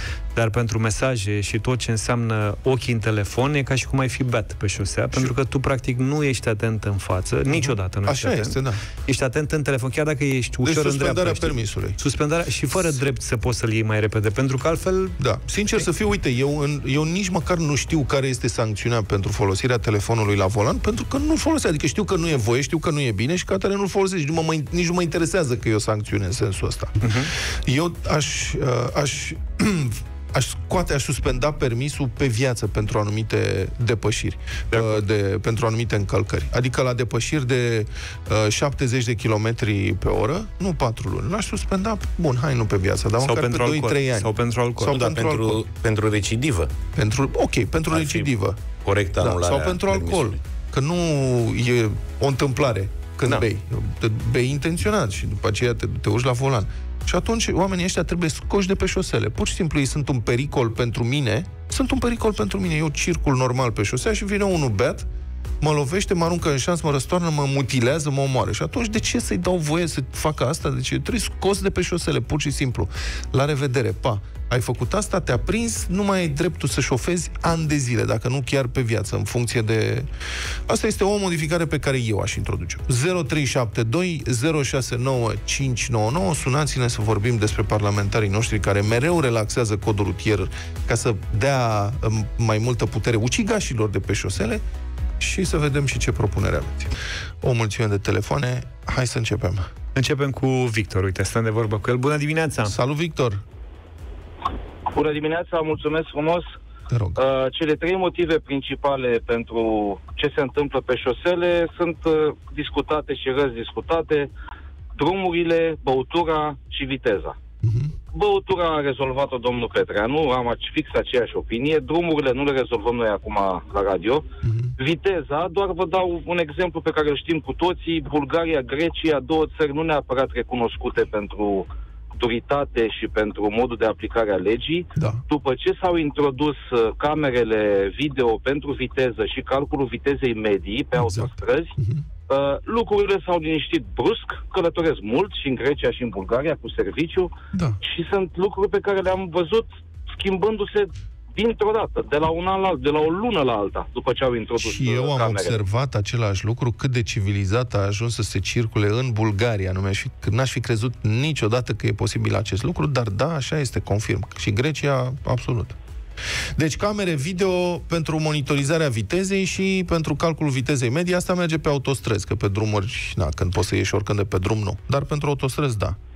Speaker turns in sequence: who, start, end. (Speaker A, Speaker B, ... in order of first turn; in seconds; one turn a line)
Speaker A: 0.3-15.2
Speaker B: 7.5-8.8
Speaker B: 10.6-12.0
Speaker B: 15.2-27.1
Speaker A: 27.0-27.3
Speaker B: 27.6-45.6
Speaker A: 34.7-35.0
Speaker A: 43.2-45.0
Speaker C: 44.9-46.7
Speaker B: 47.0-48.6
Speaker C: 47.9-48.3
Speaker C: 48.8-50.4
Speaker B: 49.2-65.1
Speaker B: 65.6-80.1
Speaker B: 80.7-94.6
Speaker B: 95.2-99.6
Speaker A: 100.0-102.8
Speaker B: 102.7-103.4
Speaker D: 104.9-106.5
Speaker B: 106.9-107.2
Speaker D: 107.2-114.3
Speaker D: 115.0-117.3
Speaker B: 117.6-117.9
Speaker D: 118.1-124.2
Speaker B: 124.4-124.7
Speaker D: 124.8-141.7
Speaker B: 134.9-135.2
Speaker B: 141.0-142.0
Speaker D: 142.3-155.6
Speaker B: 147.5-147.8
Speaker B: 154.6-165.8
Speaker B: 166.6-176.0